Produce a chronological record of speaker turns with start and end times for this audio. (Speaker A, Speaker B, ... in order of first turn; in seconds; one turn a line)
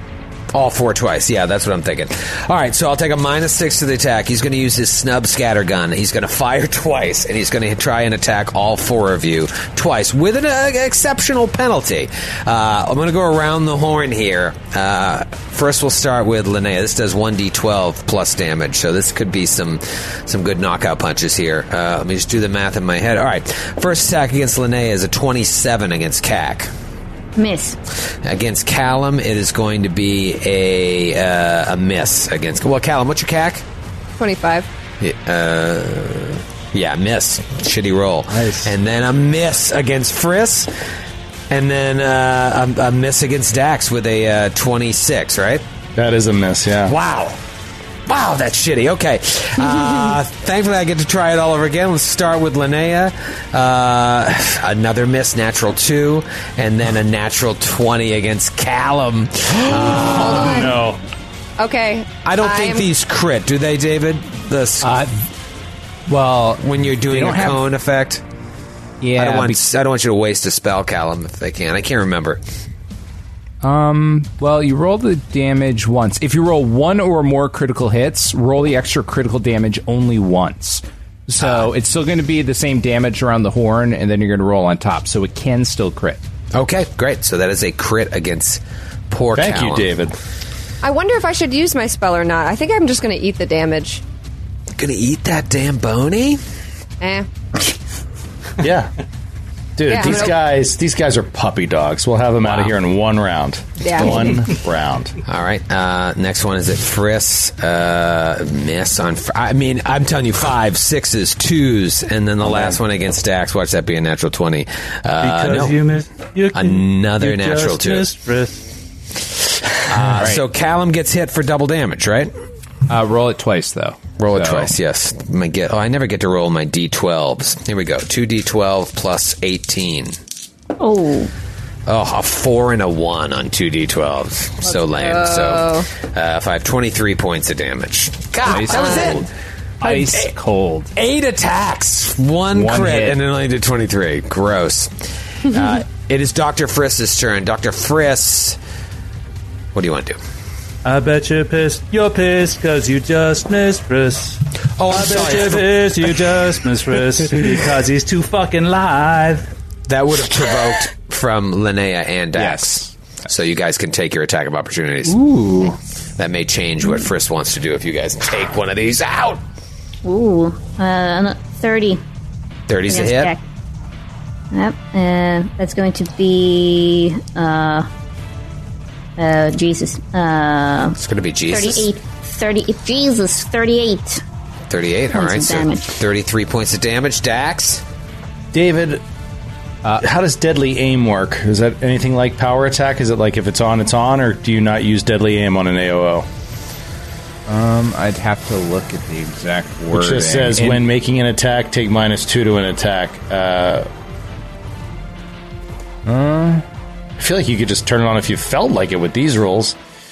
Speaker A: 0.5-26.7
Speaker B: 27.4-27.8
Speaker A: 28.2-33.6
Speaker C: 34.2-34.7
Speaker A: 35.0-40.7
Speaker D: 38.3-38.7
Speaker A: 41.5-45.6
Speaker E: 46.0-46.9
Speaker A: 46.9-47.4
Speaker A: 48.1-60.7
Speaker D: 60.0-61.0
Speaker C: 61.6-62.9
Speaker A: 62.2-65.0
Speaker F: 64.8-65.2
Speaker F: 66.1-67.6
Speaker A: 66.6-68.2
Speaker F: 69.0-69.6
Speaker A: 69.2-72.4
Speaker F: 73.6-86.2
Speaker A: 81.4-81.7
Speaker A: 86.5-90.0
Speaker E: 89.3-90.1
Speaker C: 90.8-94.0
Speaker A: 94.8-96.4
Speaker C: 97.0-97.3
Speaker E: 98.6-98.9
Speaker E: 99.8-105.2
Speaker C: 99.9-100.4
Speaker A: 102.4-102.7
Speaker C: 103.8-104.3
Speaker A: 105.2-115.8
Speaker D: 115.2-118.7
Speaker A: 116.5-118.1
Speaker A: 119.8-122.3
Speaker F: 122.9-124.7
Speaker A: 124.2-130.2
Speaker B: 130.8-131.3
Speaker A: 131.8-139.3
Speaker C: 134.7-135.9
Speaker F: 138.4-139.3
Speaker F: 139.8-140.9
Speaker A: 139.8-140.3
Speaker A: 140.9-144.9
Speaker F: 142.5-143.2
Speaker A: 145.4-148.6
Speaker A: 149.7-150.2
Speaker D: 150.8-159.5
Speaker A: 154.8-155.8
Speaker A: 159.9-165.2
Speaker F: 162.3-162.9
Speaker F: 165.1-165.7
Speaker A: 166.2-169.4
Speaker B: 170.0-172.0
Speaker A: 172.7-173.3
Speaker B: 172.9-173.4
Speaker B: 174.5-177.9
Speaker B: 179.2-184.2
Speaker A: 181.0-181.9
Speaker A: 184.7-187.8
Speaker B: 185.1-185.8
Speaker E: 188.5-189.0
Speaker E: 190.0-196.3
Speaker F: 197.5-200.8
Speaker E: 199.9-203.9
Speaker F: 206.1-206.6
Speaker E: 207.2-209.8